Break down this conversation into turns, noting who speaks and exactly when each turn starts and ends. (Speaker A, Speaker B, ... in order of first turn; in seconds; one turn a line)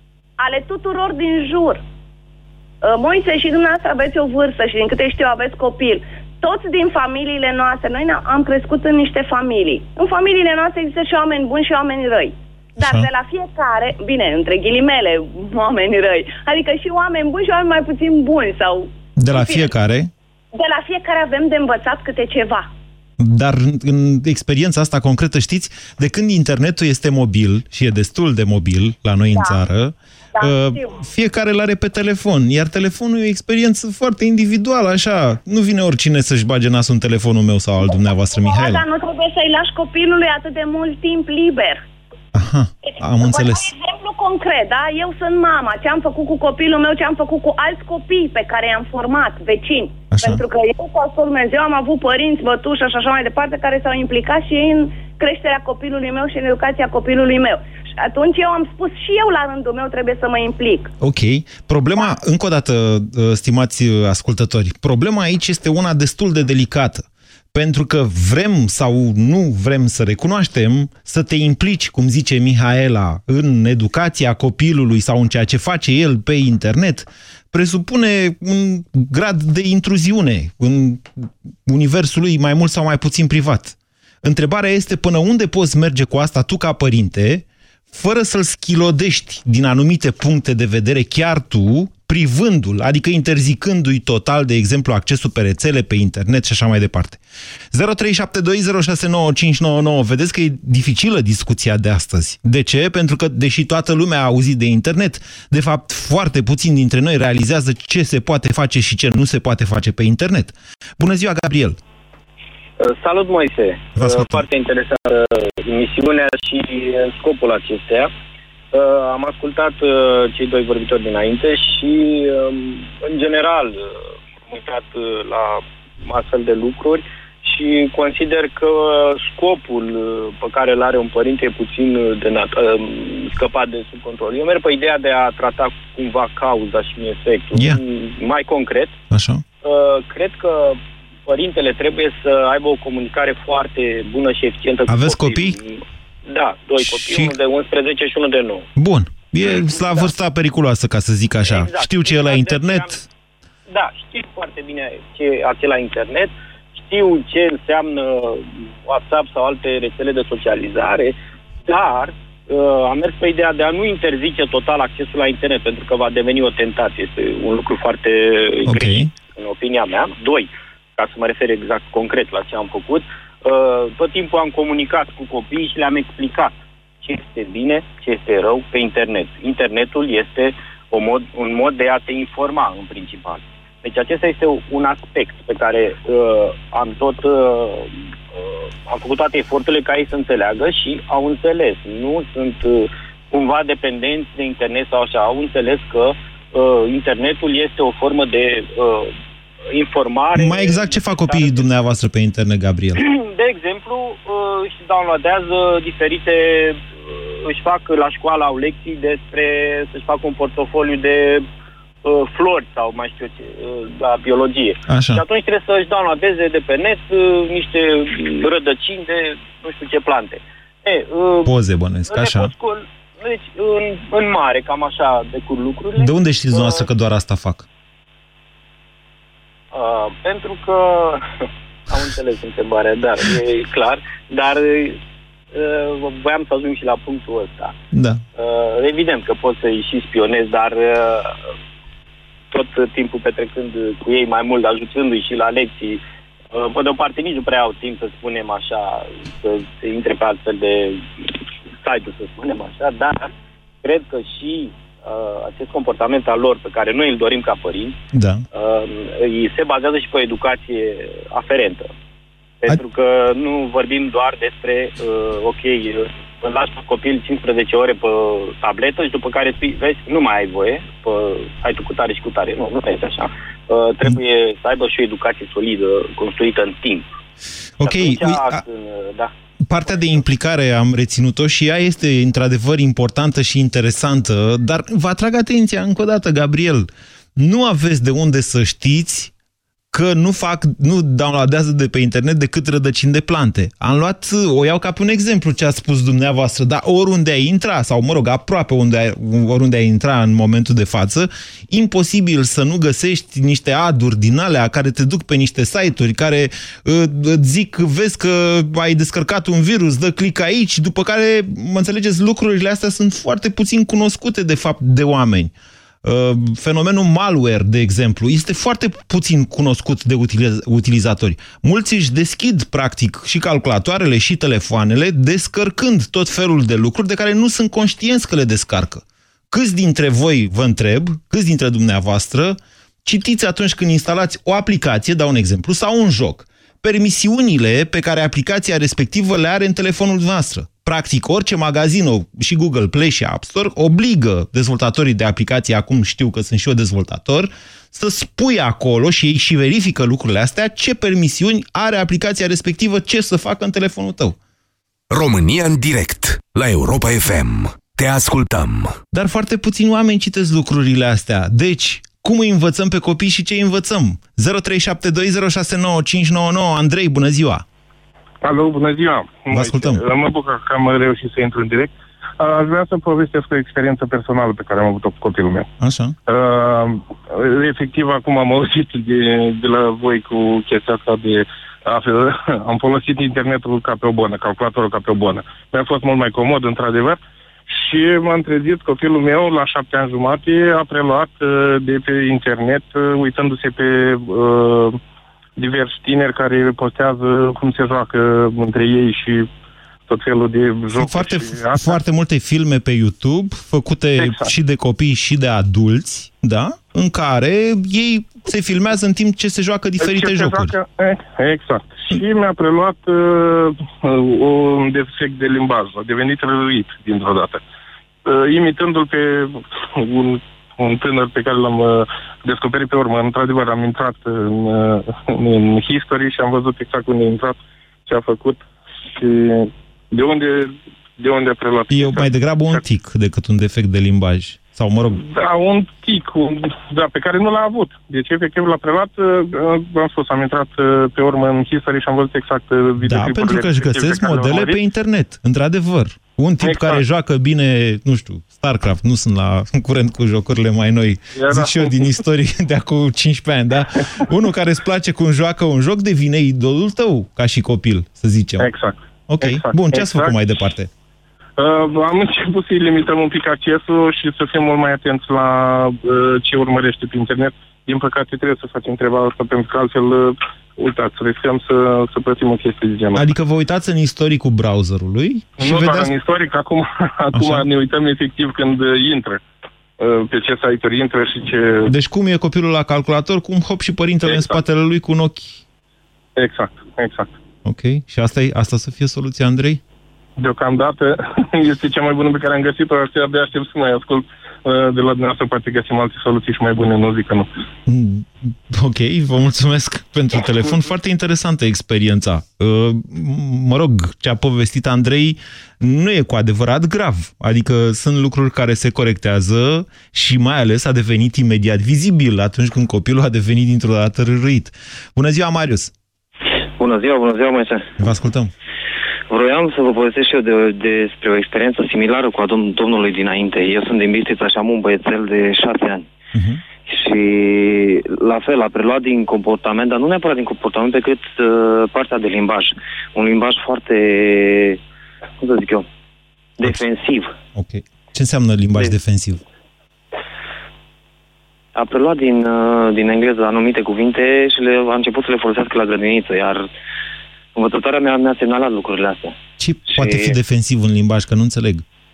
Speaker A: 0.4-1.8
Speaker A: 2.8-19.7
Speaker B: 12.8-13.1
Speaker B: 19.2-20.1
Speaker A: 20.5-22.7
Speaker B: 23.2-38.8
Speaker A: 30.4-30.9
Speaker A: 37.9-41.8
Speaker B: 42.3-43.7
Speaker A: 43.2-60.9
Speaker B: 50.1-50.4
Speaker B: 61.0-97.2
Speaker B: 97.7-111.8
Speaker C: 112.8-118.1
Speaker B: 114.0-114.5
Speaker C: 118.7-139.0
Speaker B: 137.5-137.8
Speaker B: 139.1-139.4
Speaker C: 139.6-148.7
Speaker B: 144.9-145.6
Speaker B: 146.8-147.3
Speaker B: 148.8-153.0
Speaker C: 149.4-150.1
Speaker C: 151.4-153.0
Speaker C: 153.7-199.1
Speaker B: 168.6-169.1
Speaker C: 199.7-201.7
Speaker B: 200.3-203.0
Speaker C: 203.0-211.4
Speaker C: 212.0-221.5
Speaker B: 214.9-215.2
Speaker B: 221.4-222.5
Speaker C: 222.1-226.9
Speaker B: 226.0-227.7
Speaker C: 229.7-235.0
Speaker C: 235.5-237.7
Speaker B: 237.9-238.2
Speaker C: 238.3-241.3
Speaker C: 242.5-246.0
Speaker C: 246.5-253.3
Speaker C: 253.8-257.9
Speaker B: 258.1-258.4
Speaker C: 258.5-261.9
Speaker C: 262.6-277.1
Speaker B: 277.8-278.6
Speaker C: 277.8-279.3
Speaker B: 279.6-289.3
Speaker B: 289.9-315.5
Speaker B: 316.0-354.4
Speaker D: 355.1-358.9
Speaker B: 359.1-367.6
Speaker E: 368.4-375.7
Speaker B: 369.5-370.0
Speaker B: 375.8-376.1
Speaker E: 376.3-395.0
Speaker E: 395.6-399.5
Speaker E: 400.1-401.9
Speaker B: 400.9-410.8
Speaker E: 404.2-404.5
Speaker E: 410.0-417.6
Speaker E: 418.2-428.6
Speaker E: 429.1-432.8
Speaker B: 431.9-435.2
Speaker E: 435.2-444.8
Speaker B: 443.0-458.7
Speaker E: 446.6-447.0
Speaker E: 451.4-452.1
Speaker E: 458.6-460.4
Speaker B: 459.3-460.9
Speaker E: 461.6-473.3
Speaker B: 473.1-476.1
Speaker E: 475.6-479.4
Speaker B: 477.3-477.6
Speaker E: 480.0-481.9
Speaker B: 481.9-485.6
Speaker E: 484.3-484.6
Speaker E: 486.4-487.3
Speaker B: 487.6-489.8
Speaker E: 490.4-497.5
Speaker B: 497.9-515.9
Speaker F: 516.5-517.9
Speaker B: 518.0-518.5
Speaker F: 519.3-526.1
Speaker B: 526.3-526.6
Speaker F: 526.8-534.8
Speaker F: 535.4-535.9
Speaker F: 536.6-537.3
Speaker B: 537.5-539.4
Speaker F: 541.7-546.7
Speaker F: 547.5-549.4
Speaker B: 549.6-551.8
Speaker F: 549.9-550.4